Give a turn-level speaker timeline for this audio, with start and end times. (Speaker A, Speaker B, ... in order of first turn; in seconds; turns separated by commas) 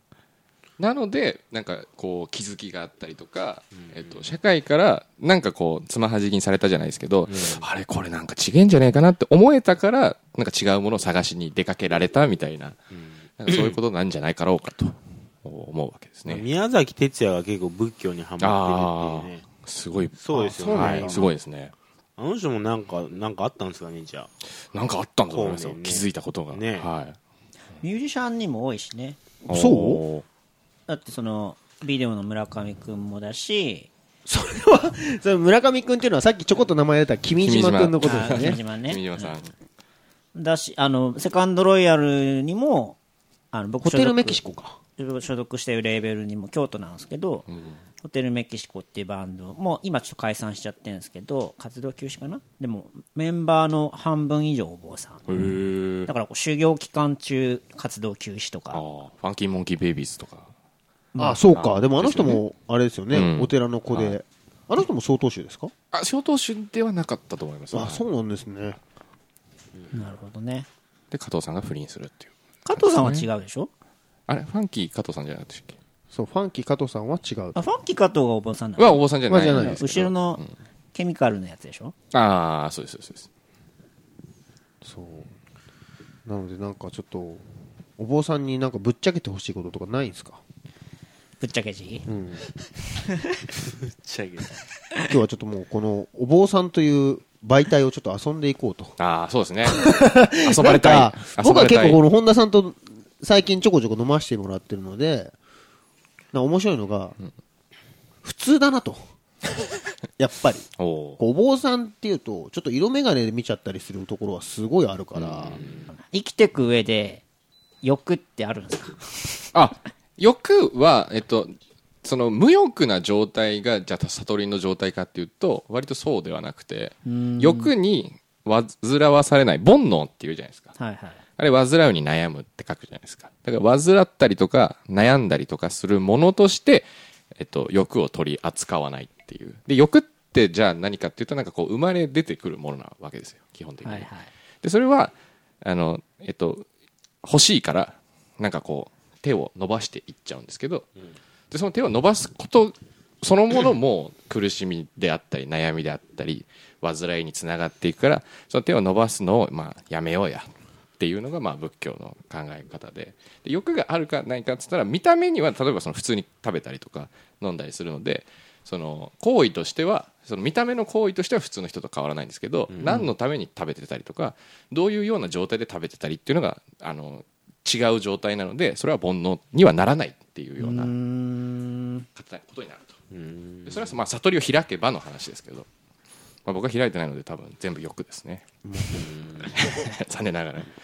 Speaker A: 0.8-12.8, Speaker B: 3.7-4.2, Speaker B: 7.3-7.7, Speaker B: 12.9-13.8, Speaker A: 13.4-16.4, Speaker B: 16.3-19.5, Speaker A: 18.4-21.7, Speaker B: 20.2-21.3, Speaker C: 20.3-21.3, Speaker B: 22.2-24.3, Speaker A: 24.7-27.2, Speaker B: 25.3-26.9, Speaker D: 27.8-29.3, Speaker A: 29.5-30.3, Speaker C: 29.5-30.0, Speaker D: 30.9-33.9, Speaker C: 34.3-38.6, Speaker A: 37.4-39.5, Speaker D: 38.0-39.4, Speaker D: 40.4-43.0, Speaker D: 43.5-44.4, Speaker C: 43.8-44.8, Speaker D: 45.0-47.5, Speaker A: 47.5-47.8, Speaker D: 48.0-55.4, Speaker A: 55.3-56.1, Speaker D: 56.1-58.8, Speaker A: 58.7-60.5, Speaker C: 61.2-65.7, Speaker A: 61.5-62.4, Speaker A: 63.1-64.2, Speaker A: 65.9-68.0, Speaker C: 67.7-68.8, Speaker D: 69.9-70.7, Speaker A: 71.1-73.3, Speaker D: 72.7-73.7, Speaker A: 74.3-75.8, Speaker C: 76.1-77.6, Speaker D: 77.5-80.4, Speaker A: 78.8-80.5, Speaker C: 79.3-79.8, Speaker D: 80.9-81.9, Speaker A: 82.1-83.3, Speaker C: 84.8-85.3, Speaker C: 86.3-87.4, Speaker C: 88.0-90.4, Speaker D: 91.4-92.1, Speaker C: 92.1-92.4, Speaker B: 93.8-94.6, Speaker C: 95.1-99.0, Speaker A: 99.0-102.0, Speaker C: 99.7-105.3, Speaker C: 106.3-107.2, Speaker C: 108.2-109.0, Speaker C: 110.2-115.6, Speaker A: 110.8-111.2, Speaker A: 115.2-115.7, Speaker D: 115.9-117.2, Speaker D: 117.8-119.4, Speaker A: 119.5-130.8, Speaker D: 127.1-127.7, Speaker D: 130.8-131.2, Speaker A: 131.4-144.1, Speaker D: 143.8-144.3, Speaker A: 144.6-146.7, Speaker A: 147.2-150.9, Speaker A: 151.5-180.9, Speaker B: 172.7-173.1, Speaker D: 180.6-182.1, Speaker A: 182.2-183.0, Speaker B: 183.1-184.0, Speaker A: 183.7-185.7, Speaker A: 186.4-188.4, Speaker C: 188.7-189.1, Speaker B: 189.0-189.5, Speaker A: 189.5-190.7